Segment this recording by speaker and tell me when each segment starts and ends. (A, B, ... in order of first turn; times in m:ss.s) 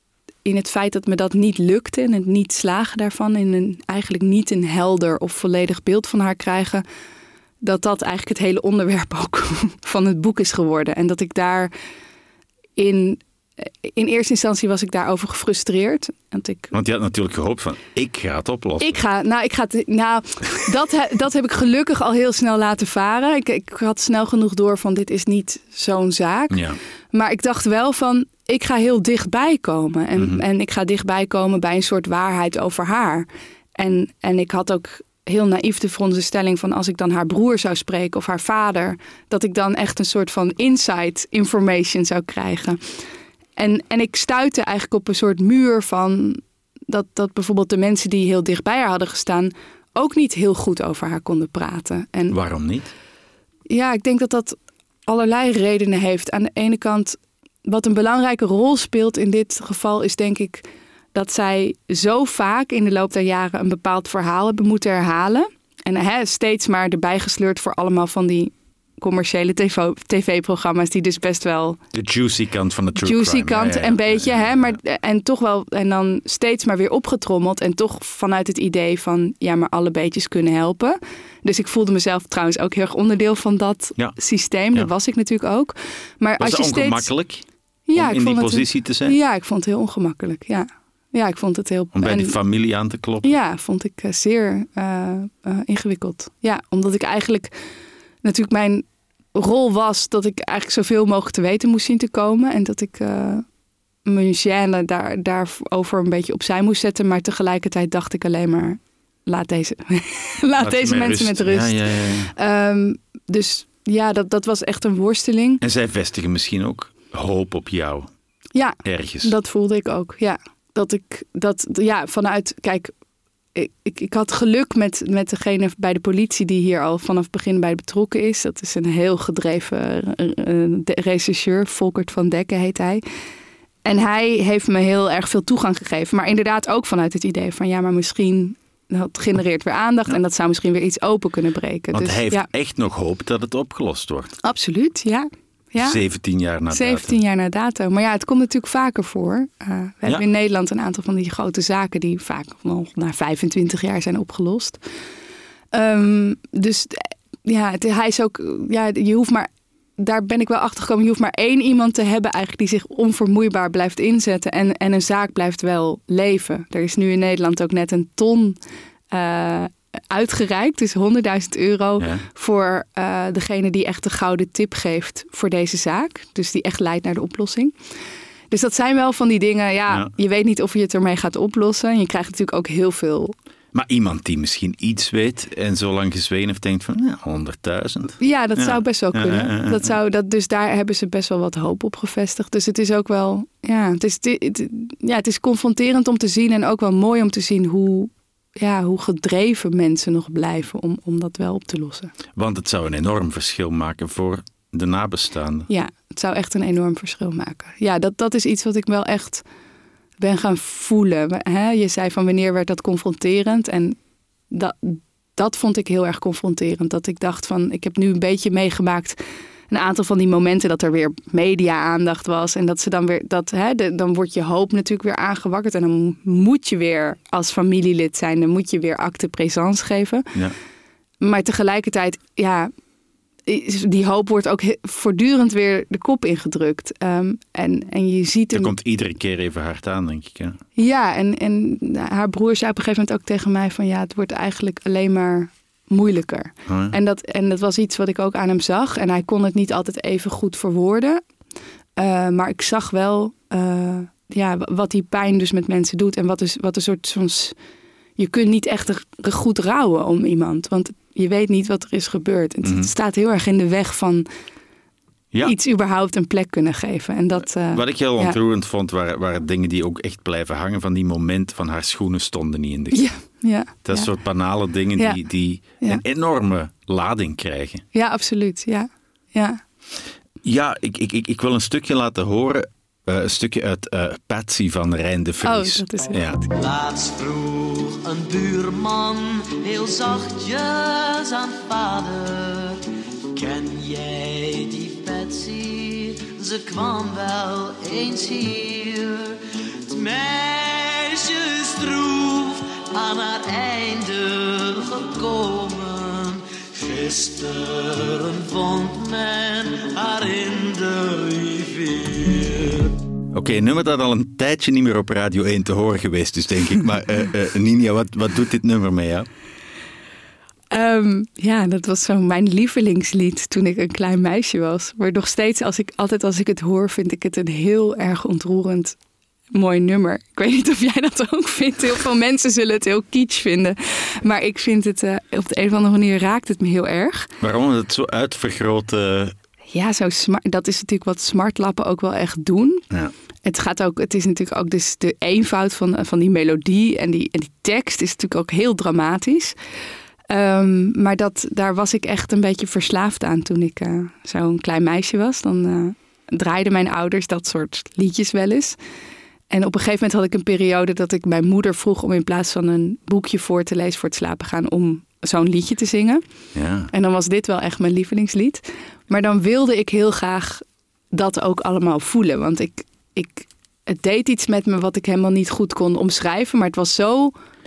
0:00.4-0:06.8 A
0:07.6-0:11.7 A
0:12.8-0:16.7 A
0:16.7-0:19.0 B
0:18.8-0:26.6 A
0:26.5-0:26.8 B
0:27.1-0:42.9 A
0:30.2-0:30.4 B
0:43.6-0:52.4 A
0:52.3-0:52.9 B
0:53.7-1:11.8 A
1:11.9-1:14.8 B
1:13.0-1:27.1 A
1:26.4-1:29.2 B
1:27.9-1:32.4 A
1:31.9-1:33.3 B
1:33.2-1:37.5 A
1:38.2-1:43.4 A
1:44.0-1:55.6 A
1:50.6-1:52.3 B
1:55.6-1:58.1 B
1:58.5-2:02.9 A
1:58.8-1:59.3 B
2:03.5-2:13.0 A
2:13.8-2:22.5 A
2:21.9-2:24.3 B
2:24.4-2:26.0 A
2:25.8-2:27.2 B
2:26.7-2:34.8 A
2:35.7-2:48.6 A
2:49.1-2:57.7 A
2:52.0-2:52.2 B
2:58.5-3:03.3 A
3:03.7-3:09.9 B
3:08.2-3:22.1 A
3:22.4-3:25.7 B
3:25.7-3:29.4 A
3:30.2-3:34.0 A
3:34.5-3:39.2 A
3:39.7-3:50.3 A
3:51.2-3:52.7 A
3:53.4-3:58.7 A
3:58.5-4:00.6 B
4:00.8-4:11.2 A
4:06.7-4:06.9 B
4:12.0-4:17.6 A
4:18.2-4:24.2 A
4:22.6-4:22.9 B
4:25.4-4:28.4 A
4:27.7-4:33.0 B
4:32.9-4:34.1 A
4:33.8-4:37.8 B
4:37.9-4:39.6 A
4:40.4-4:46.4 B
4:45.4-4:46.5 A
4:46.5-4:52.8 C
4:53.3-5:13.0 C
5:13.3-5:19.3 B
5:20.7-5:29.0 A
5:29.5-5:37.3 A
5:37.4-5:39.3 B
5:39.7-5:42.8 A
5:43.4-5:49.6 A
5:50.3-5:58.8 A
5:59.5-6:06.2 A
6:06.5-6:06.9 B
6:06.9-6:17.3 A